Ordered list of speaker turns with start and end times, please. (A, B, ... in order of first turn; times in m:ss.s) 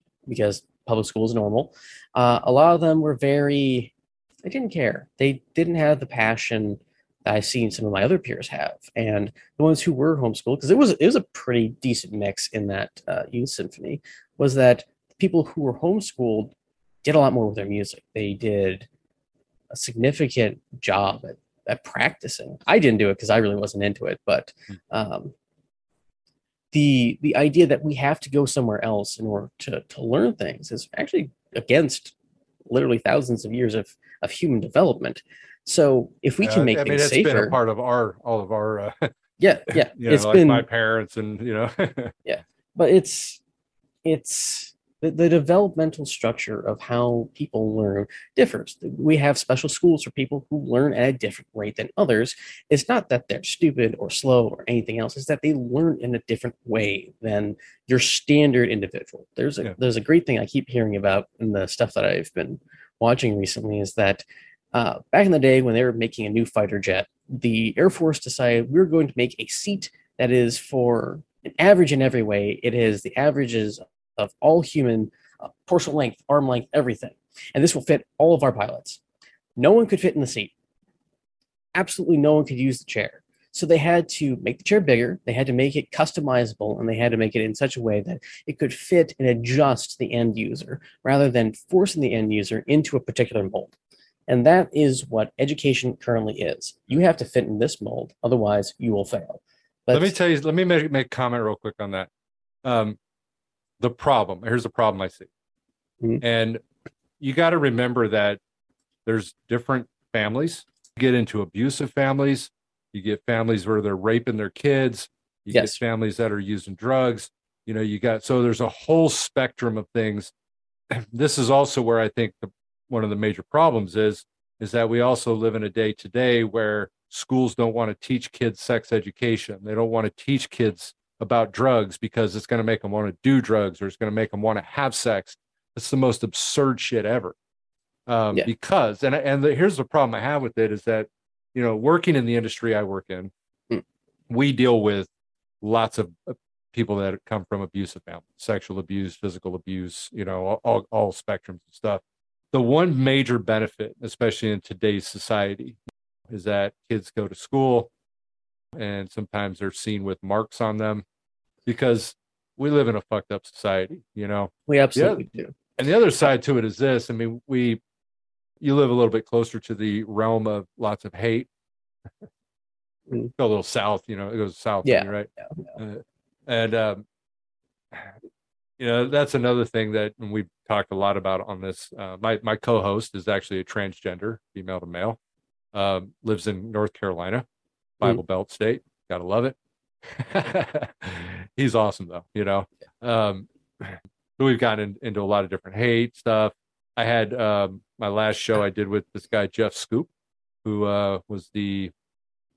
0:00.3-0:03.9 A
0:04.4-0:16.5 A
0:17.0-0:18.9 A
0:19.7-0:25.3 A
0:26.7-0:32.1 A
0:32.7-0:37.6 A
0:36.4-0:39.1 B
0:39.4-0:40.6 A
0:39.9-0:42.1 B
0:42.3-0:43.4 A
0:44.0-1:19.0 A
1:19.6-1:20.5 A
1:21.8-1:33.8 A
1:34.3-1:40.1 A
1:39.9-1:42.1 B
1:42.6-1:43.0 B
1:43.8-1:45.3 B
1:46.2-1:46.6 B
1:47.2-1:48.4 B
1:49.1-2:00.3 B
1:55.5-1:55.8 A
2:00.9-2:17.4 B
2:18.1-2:23.3 B
2:24.3-2:25.1 B
2:25.6-2:32.0 B
2:32.5-2:35.8 B
2:36.3-2:37.9 B
2:38.8-2:41.0 B
2:41.7-2:45.2 B
2:44.7-2:45.5 A
2:45.8-2:47.8 B
2:48.6-2:51.5 B
2:53.4-2:57.0 B
2:54.8-2:55.1 A
2:58.8-3:05.2 B
3:05.7-3:07.4 B
3:08.0-3:09.6 B
3:10.1-3:20.1 B
3:20.6-3:21.9 B